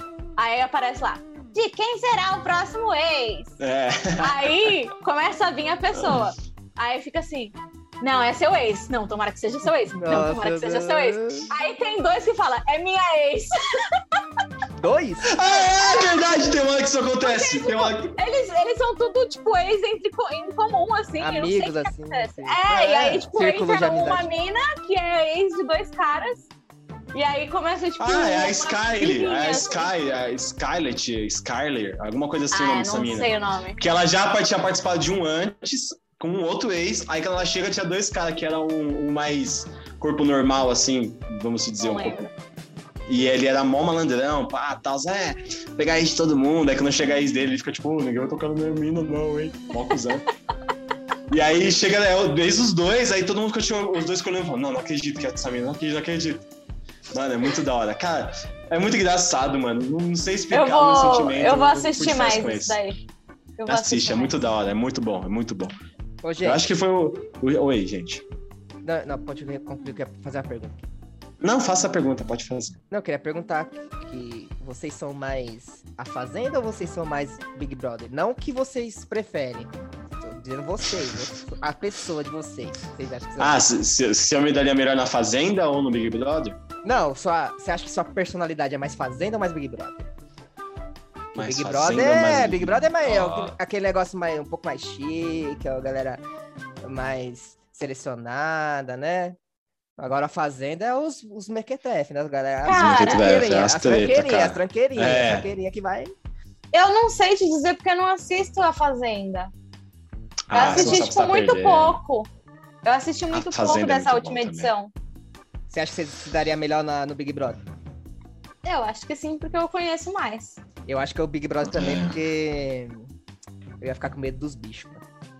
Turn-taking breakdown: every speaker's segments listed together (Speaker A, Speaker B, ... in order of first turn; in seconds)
Speaker A: 0.4-3.6, 4.2-13.5, 15.4-16.2, 17.2-26.5, 27.1-29.9, 32.5-33.8, 41.8-42.3, 60.5-63.0, 63.6-64.4, 102.6-103.2, 106.7-109.5, 110.5-112.3, 112.8-114.9, 118.6-120.6
Speaker B: 3.6-4.5, 6.0-6.3, 15.2-18.2, 28.0-42.3, 43.1-50.2, 51.3-56.5, 57.1-62.8, 63.7-65.7, 66.4-68.2, 71.4-72.8, 83.4-86.6, 91.3-93.6, 102.7-105.5, 110.5-112.0, 113.3-114.7, 121.7-122.2
Speaker C: 9.9-11.5, 14.8-15.3, 21.2-24.2, 66.2-66.6, 68.8-70.8, 72.9-83.6, 86.8-90.1, 91.3-96.2, 96.8-99.4, 100.0-106.1, 110.6-111.0, 115.7-117.6, 120.9-123.1, 123.8-125.0